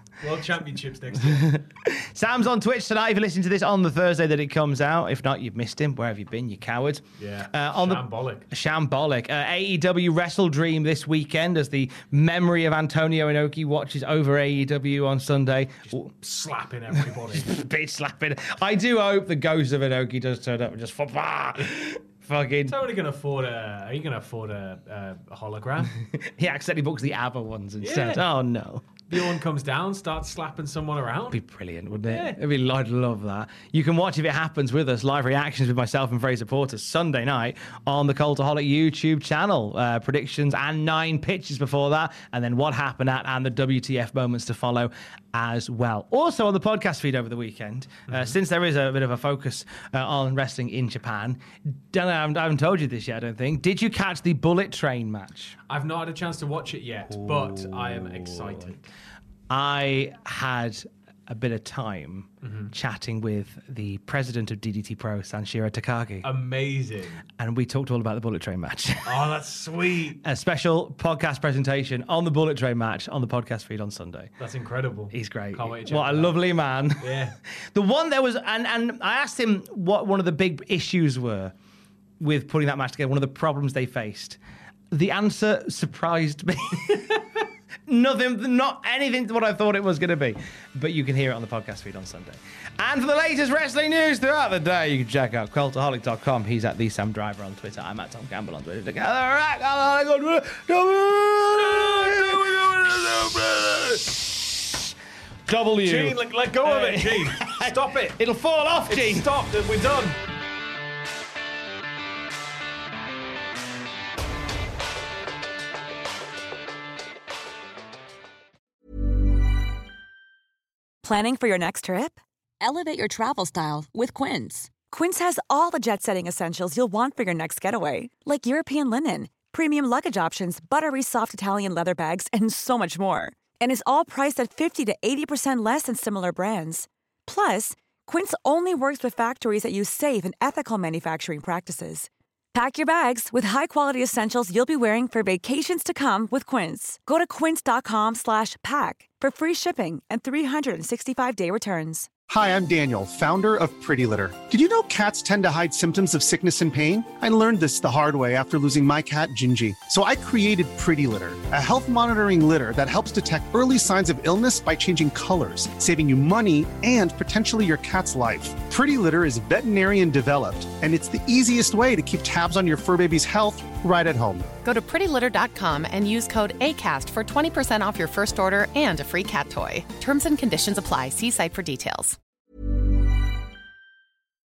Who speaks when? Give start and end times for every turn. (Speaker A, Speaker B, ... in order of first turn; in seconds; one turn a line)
Speaker A: 0.2-1.6
Speaker B: 1.2-16.1
Speaker A: 7.2-8.5
Speaker A: 15.8-17.6
Speaker B: 17.3-22.8
Speaker A: 22.7-25.9
Speaker B: 26.0-29.1
Speaker A: 27.8-28.2
Speaker A: 29.1-31.4
Speaker B: 31.3-55.6
Speaker A: 32.1-32.4
Speaker A: 48.1-48.3
Speaker A: 55.7-58.9
Speaker B: 57.1-58.6
Speaker B: 59.5-66.3
Speaker A: 62.4-62.7
Speaker A: 66.2-67.2
Speaker B: 67.4-69.2
Speaker A: 69.0-70.2
Speaker B: 70.2-74.3
Speaker A: 74.4-76.5
Speaker B: 75.1-81.5
Speaker A: 77.0-77.3
Speaker B: 82.2-84.4
Speaker B: 84.9-87.2
Speaker B: 87.9-104.9
Speaker B: 105.5-109.3
Speaker A: 105.8-108.2
Speaker A: 108.9-110.2
Speaker C: 121.0-152.1
Speaker D: 152.3-174.5
Speaker E: 174.6-182.2